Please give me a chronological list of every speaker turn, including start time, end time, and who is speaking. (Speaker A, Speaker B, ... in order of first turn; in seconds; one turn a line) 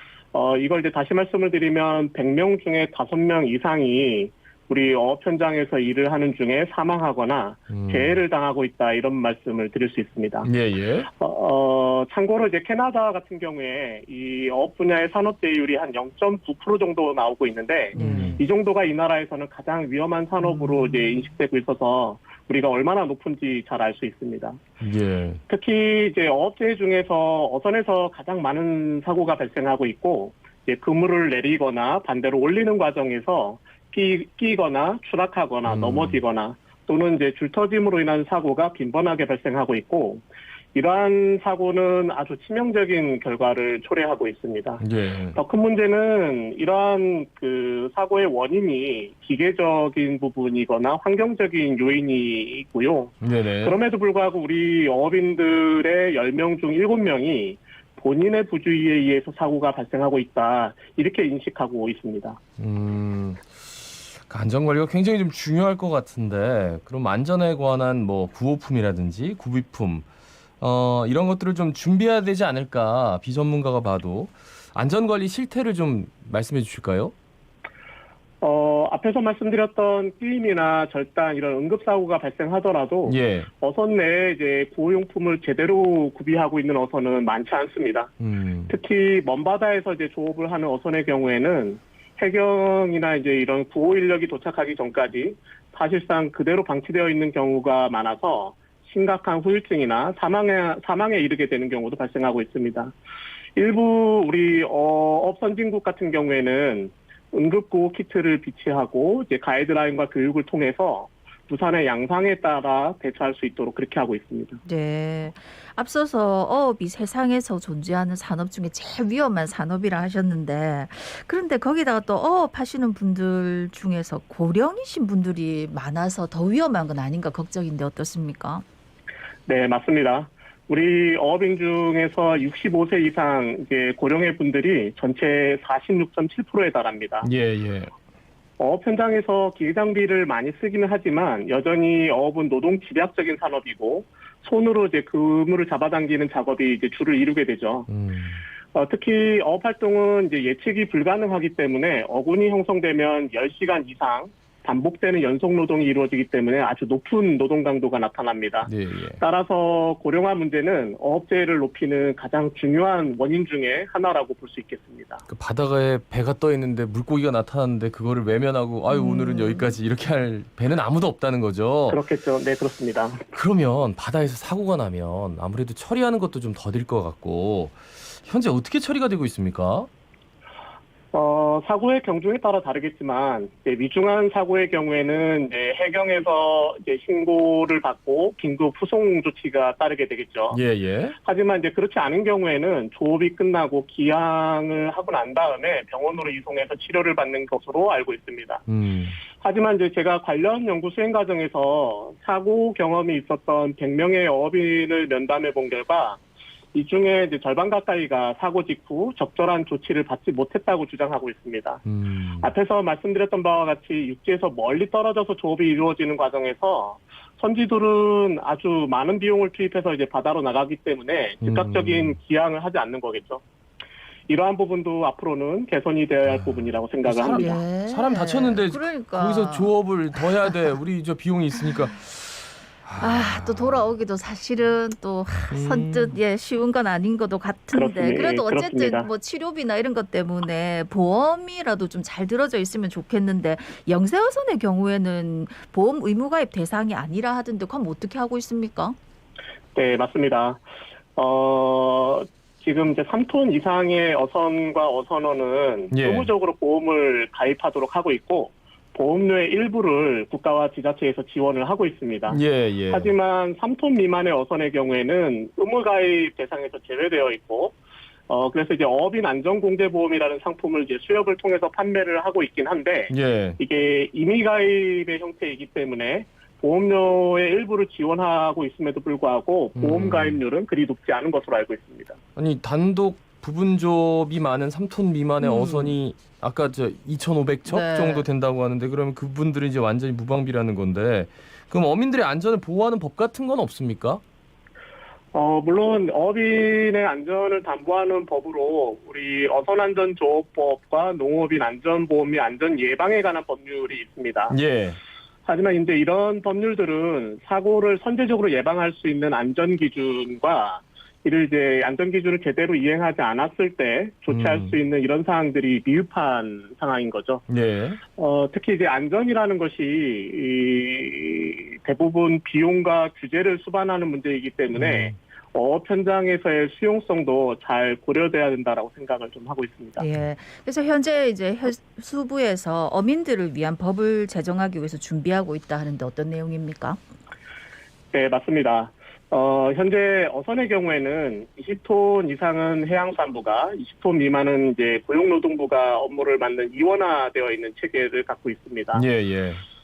Speaker A: 0.3-10.5
Speaker B: 7.7-8.2
Speaker B: 10.4-11.1
Speaker A: 11.1-24.6
Speaker C: 17.9-18.4
Speaker B: 18.0-18.4
Speaker C: 20.4-21.2
Speaker B: 24.8-25.4
Speaker A: 25.5-44.8
Speaker B: 35.7-36.2
Speaker B: 44.8-45.4
Speaker A: 45.4-62.4
Speaker B: 53.2-53.8
Speaker B: 62.6-63.5
Speaker B: 64.1-70.1
Speaker B: 70.6-77.1
Speaker A: 78.4-88.1
Speaker B: 83.1-83.5
Speaker B: 88.2-88.7
Speaker A: 88.7-102.9
Speaker A: 103.6-114.6
Speaker C: 114.7-128.7
Speaker A: 129.5-137.3
Speaker B: 137.2-137.9
Speaker A: 138.6-147.9
Speaker B: 147.9-148.4
Speaker A: 148.7-165.2
Speaker B: 158.7-159.2
Speaker B: 165.3-172.0
Speaker C: 168.9-169.8
Speaker A: 171.9-173.2
Speaker B: 173.3-179.9
Speaker A: 181.1-190.6
Speaker B: 190.5-191.2
Speaker A: 191.2-198.6
Speaker B: 198.7-199.2
Speaker A: 199.4-206.2
Speaker A: 206.7-211.8
Speaker B: 211.8-212.5
Speaker A: 212.4-223.4
Speaker B: 221.4-222.2
Speaker A: 224.3-227.5
Speaker B: 226.3-233.9
Speaker C: 227.2-229.7
Speaker C: 233.0-249.0
Speaker B: 235.5-236.2
Speaker A: 237.7-239.1
Speaker A: 249.8-250.6
Speaker A: 251.2-267.8
Speaker B: 255.9-256.3
Speaker B: 262.3-263.1
Speaker A: 268.3-282.2
Speaker B: 273.1-273.6
Speaker B: 279.8-280.4
Speaker B: 282.4-294.2
Speaker C: 285.4-286.0
Speaker C: 287.6-288.3
Speaker A: 295.3-304.6
Speaker B: 304.5-305.0
Speaker A: 305.5-317.4
Speaker B: 314.3-314.8
Speaker B: 317.5-318.0
Speaker A: 318.2-330.0
Speaker B: 324.8-325.2
Speaker C: 330.0-337.0
Speaker A: 338.1-349.0
Speaker B: 348.9-349.6